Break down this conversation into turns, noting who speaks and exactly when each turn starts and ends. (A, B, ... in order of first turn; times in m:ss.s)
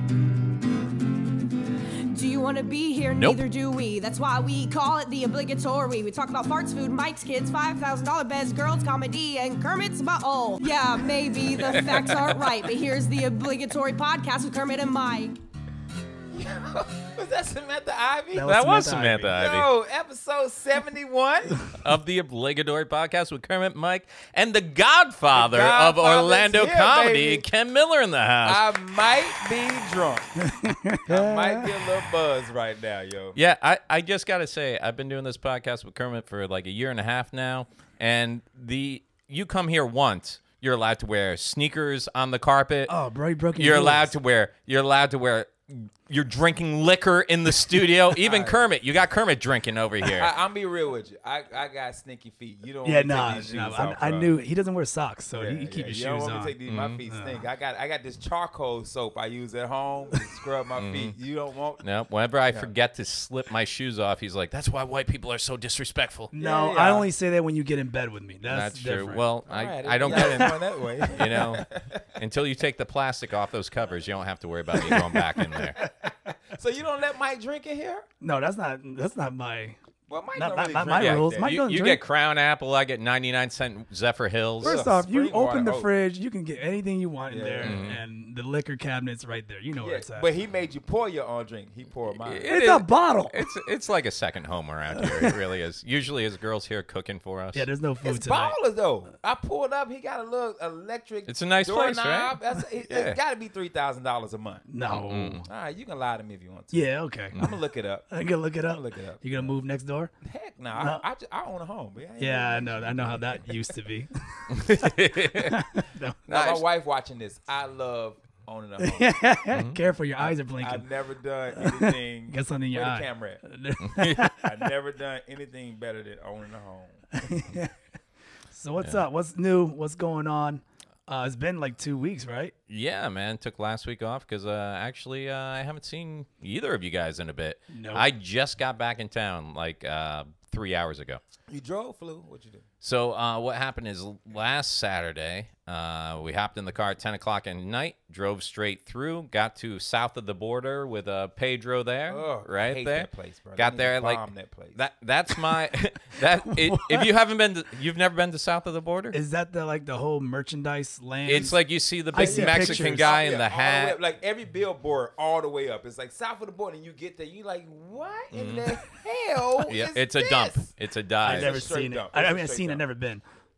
0:02.1-0:15.4 A
0:03.0-0:03.4 B
0:11.6-0:12.4 B
0:16.3-0:18.6 C
0:18.3-0:19.3 D
0:18.4-0:19.7 B
0:19.3-0:21.7 C
0:21.7-0:28.7 B
0:25.3-0:27.4 C
0:28.4-0:30.5 C
0:30.4-0:31.6 D
0:31.0-0:33.4 C
0:33.3-0:42.9 B
0:42.9-0:44.1 D
0:43.5-0:50.3 B
0:48.2-0:48.6 C
0:50.0-0:54.3 C
0:52.8-0:56.6 D
0:55.3-1:01.8 C
0:56.6-0:57.0 B
0:57.1-0:57.4 D
1:00.8-1:01.2 B
1:01.8-1:06.3 B
1:06.3-1:09.2 D
1:06.4-1:07.1 C
1:08.5-1:15.8 B
1:09.5-1:12.1 C
1:10.0-1:10.4 D
1:14.8-1:18.0 C
1:18.2-1:19.8 D
1:20.1-1:21.5 C
1:20.3-1:22.0 D
1:21.0-1:24.8 B
1:24.6-1:25.9 C
1:24.6-1:30.3 D
1:27.3-1:27.8 C
1:27.6-1:28.0 B
1:29.8-1:32.5 C
1:32.2-1:37.6 B
1:32.5-1:33.4 D
1:37.5-1:38.6 D
1:38.0-1:44.6 C
1:41.3-1:43.2 B
1:44.7-1:45.5 D
1:44.9-1:45.4 B
1:45.4-1:49.5 C
1:46.7-1:47.4 D
1:48.1-1:50.1 D
1:50.2-1:53.5 C
1:50.8-1:51.0 D
1:52.2-1:56.2 D
1:54.5-1:55.6 B
1:56.3-1:56.6 B
1:56.3-1:59.2 C
1:58.8-2:00.9 D
1:59.5-1:59.8 B
2:00.2-2:03.4 C
2:01.6-2:04.4 D
2:03.8-2:04.4 B
2:04.4-2:07.2 C
2:07.2-2:07.7 D
2:08.5-2:12.5 D
2:12.7-2:21.2 B
2:17.7-2:18.1 D
2:21.5-2:22.6 C
2:22.8-2:39.2 B
2:32.1-2:34.8 C
2:36.7-2:37.0 D
2:39.1-2:41.6 D
2:41.2-2:44.0 B
2:41.3-2:41.5 C
2:42.1-2:43.1 D
2:42.1-2:50.7 C
2:48.3-2:48.7 B
2:49.6-2:51.6 B
2:51.2-2:52.8 C
2:51.2-2:53.2 D